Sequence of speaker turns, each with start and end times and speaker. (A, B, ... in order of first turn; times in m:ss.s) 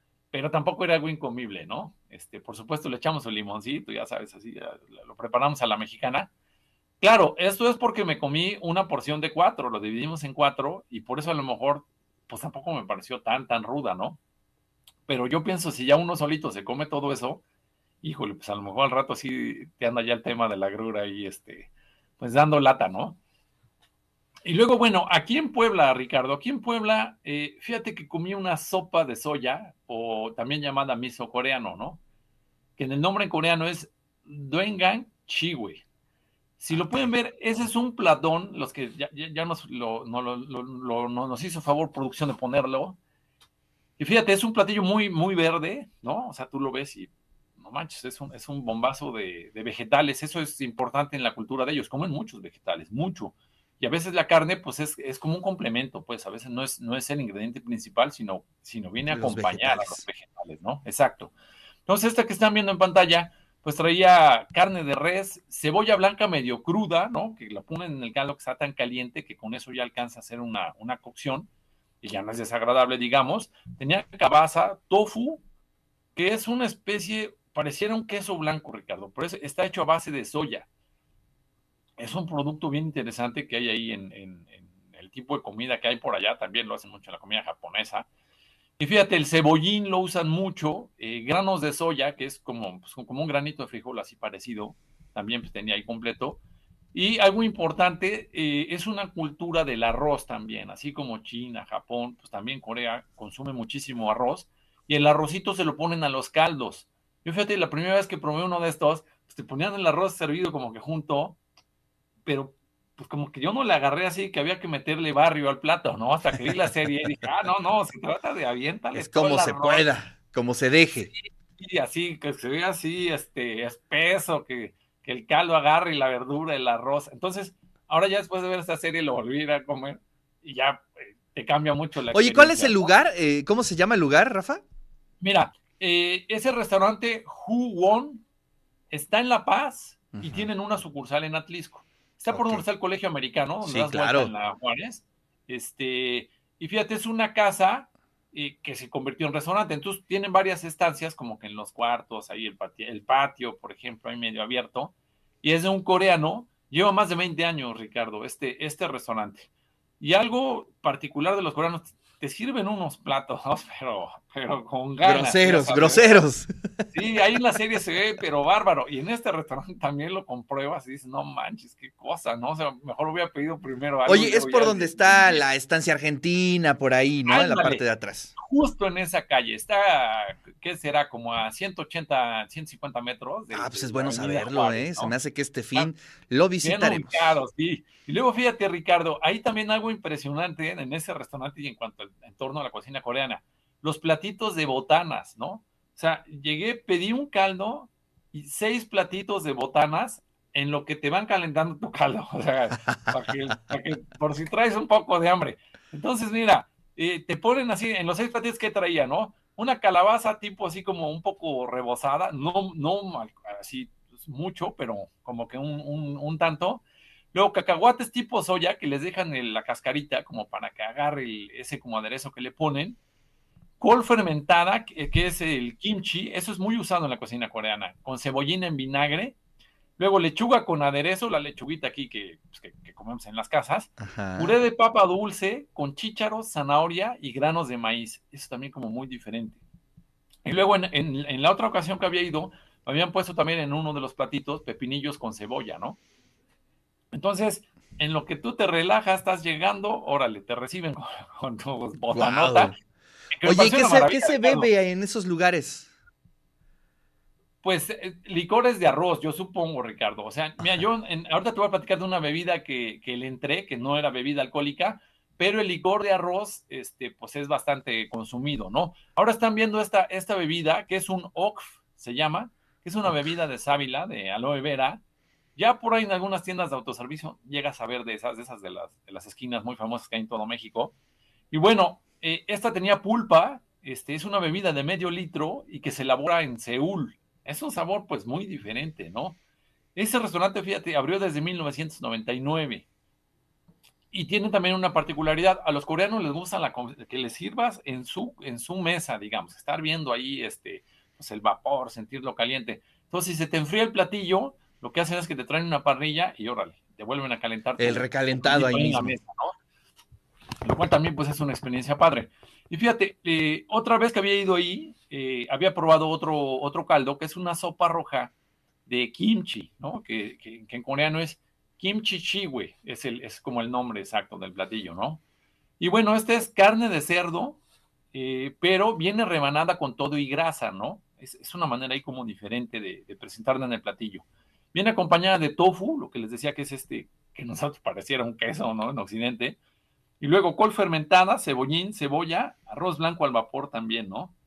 0:00.3-0:06.3 A
0:07.0-0:14.2 A
0:15.1-0:17.4 A
0:18.0-0:23.2 A
0:24.5-0:32.0 A
0:32.8-0:35.8 A
0:36.6-0:43.0 A
0:36.7-0:37.1 B
0:44.0-1:01.3 A
0:59.1-1:00.0 B
1:01.9-1:11.5 A
1:12.0-1:15.4 A
1:16.2-1:20.7 A
1:22.0-1:28.1 A
1:28.8-1:36.4 A
1:36.9-1:51.4 A
1:52.2-1:59.9 A
1:58.9-2:01.1 B
2:01.6-2:12.9 A
2:12.1-2:14.6 B
2:15.2-2:18.2 A
2:18.9-2:39.5 A
2:20.1-2:20.5 B
2:22.3-2:22.6 B
2:23.6-2:24.3 B
2:40.0-2:46.3 A
2:45.0-2:46.5 B
2:46.9-2:55.4 A
2:54.0-2:58.3 B
2:57.3-2:57.8 A
2:58.4-3:05.2 A
3:03.5-3:07.4 B
3:06.6-3:43.0 A
3:22.9-3:23.2 B
3:43.8-3:49.4 A
3:50.0-3:59.6 A
3:54.0-3:54.6 B
4:00.4-4:06.0 A
4:07.1-4:12.7 A
4:12.1-4:12.8 B
4:13.3-4:14.7 A
4:13.4-4:15.9 B
4:17.6-4:35.0 A
4:33.1-4:33.3 B
4:35.6-4:40.9 A
4:41.5-4:49.4 A
4:50.0-4:52.9 A
4:54.1-5:09.5 A
5:07.8-5:09.2 B
5:10.6-5:18.3 A
5:18.9-5:25.2 A
5:25.8-5:27.6 A
5:28.1-5:39.6 A
5:40.2-5:44.3 A